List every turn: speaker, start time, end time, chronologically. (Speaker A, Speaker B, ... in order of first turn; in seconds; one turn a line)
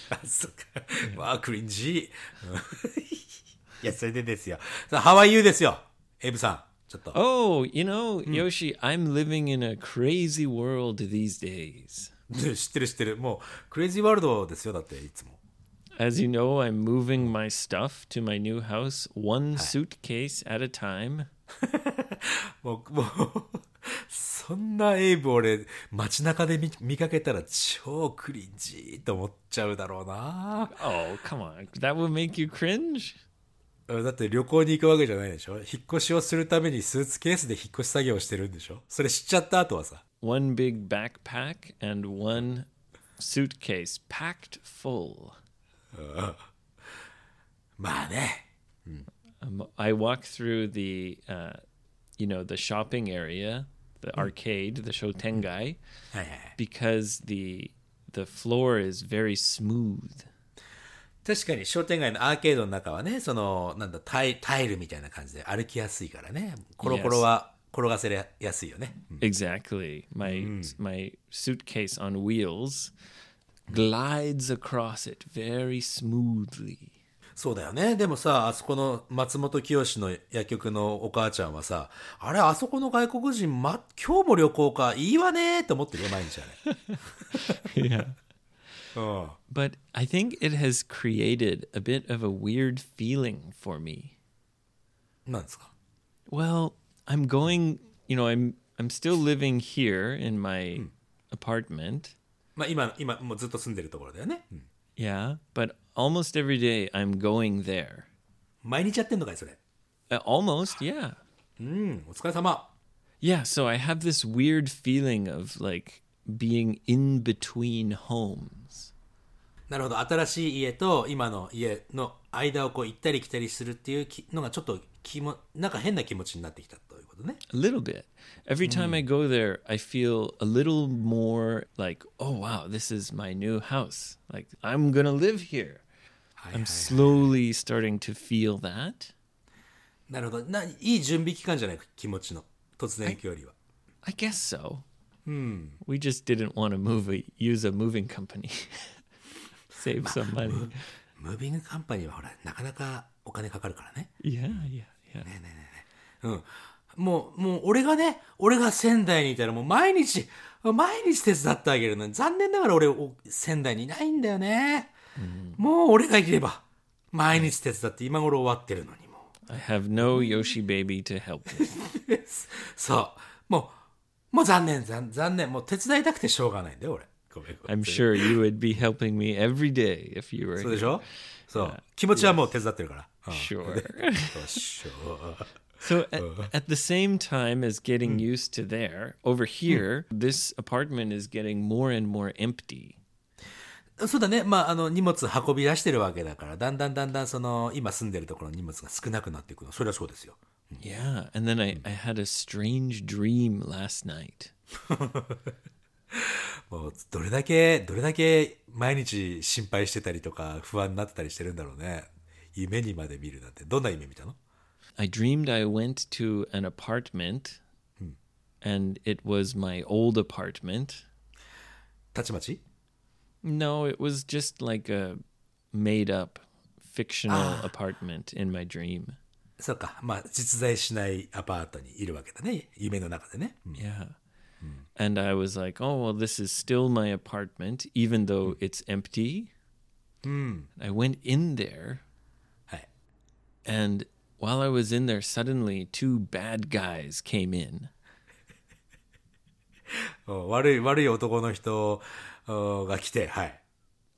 Speaker A: 0.1-7.2
Speaker B: 7.1-12.1
Speaker A: 12.3-15.4
Speaker B: 16.0-21.3
Speaker A: 21.6-30.7
Speaker B: 30.7-33.2
Speaker A: 33.9-40.0
Speaker B: 40.2-42.7
Speaker B: 43.2-45.4
Speaker A: 45.9-46.5
Speaker A: 47.8-49.1
Speaker B: 49.4-51.6
Speaker B: 52.2-55.8
Speaker A: 56.1-56.5
Speaker B: 56.6-60.3
Speaker A: 61.2-69.2
Speaker B: 66.8-67.3
Speaker B: 69.2-72.9
Speaker A: 70.2-70.7
Speaker B: 73.7-76.9
Speaker A: 77.3-86.6
Speaker B: 86.7-88.2
Speaker A: 87.3-87.7
Speaker A: 88.9-89.4
Speaker B: 89.5-94.1
Speaker A: 95.2-95.7
Speaker B: 96.3-102.1
Speaker A: 102.5-104.7
Speaker B: 105.0-108.1
Speaker A: 108.6-109.6
Speaker B: 110.1-111.2
Speaker A: 111.6-112.7
Speaker B: 113.2-118.9
Speaker A: 119.7-127.4
Speaker B: 127.5-135.8
Speaker A: 128.6-129.0
Speaker A: 136.4-137.0
Speaker B: 136.5-139.1
Speaker A: 140.1-143.5
Speaker B: 144.0-144.8
Speaker A: 145.2-145.8
Speaker B: 145.8-149.0
Speaker B: 149.7-150.8
Speaker A: 150.0-154.6
Speaker B: 154.2-155.3
Speaker A: 155.2-164.9
Speaker B: 165.2-165.6
Speaker A: 165.6-169.3
Speaker B: 169.5-171.8
Speaker A: 170.1-170.3
Speaker A: 171.7-173.8
Speaker A: 174.3-178.3
Speaker B: 177.7-182.4
Speaker A: 180.6-185.5
Speaker B: 183.3-184.6
Speaker B: 185.8-193.0
Speaker A: 186.2-186.5
Speaker A: 194.0-200.8
Speaker B: 200.8-204.5
Speaker A: 204.8-205.5
Speaker A: 206.1-214.4
Speaker B: 215.0-217.6
Speaker B: 218.6-221.0
Speaker A: 222.1-222.6
Speaker B: 223.4-225.2
Speaker B: 225.7-229.2
Speaker A: 227.3-227.7
Speaker A: 229.6-233.8
Speaker B: 233.7-234.1
Speaker B: 234.9-239.5
Speaker A: 240.2-240.7
Speaker B: 240.8-242.0
Speaker B: 243.6-247.9
Speaker A: 249.9-253.6